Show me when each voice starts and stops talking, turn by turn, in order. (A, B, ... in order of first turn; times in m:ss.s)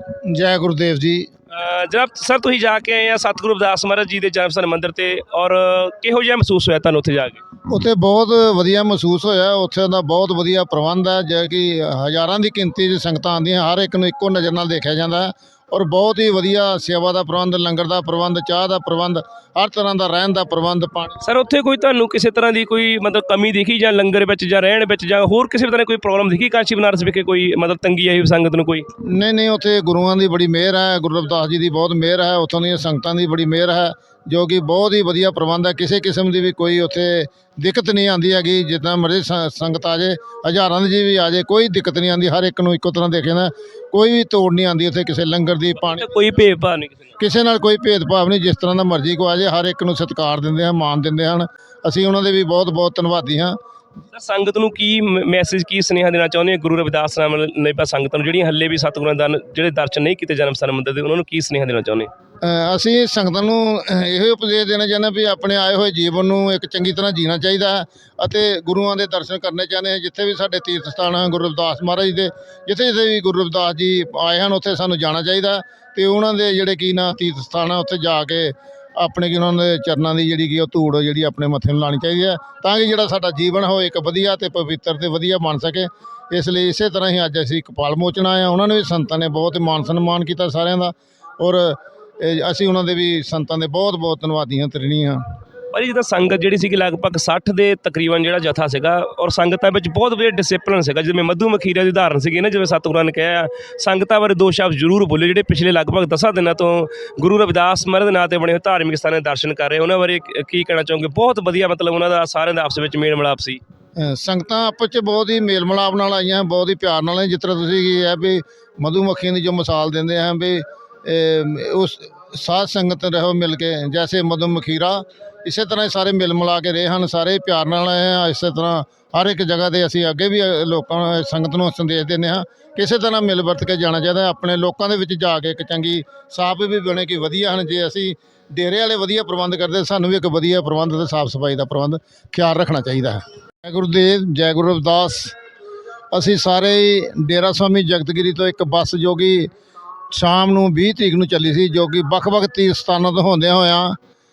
0:00.2-0:01.3 A
0:01.5-0:07.4 B
0:07.7-0:21.2 A
0:21.2-0:28.8 B
0:29.0-0:46.1 A
0:45.8-0:47.1 B
0:47.2-0:53.6 A
0:54.1-1:02.1 B
1:02.4-1:35.2 A
1:35.7-1:53.6 B
1:54.0-2:25.4 A
2:26.1-2:29.5 A
2:30.1-2:34.0 A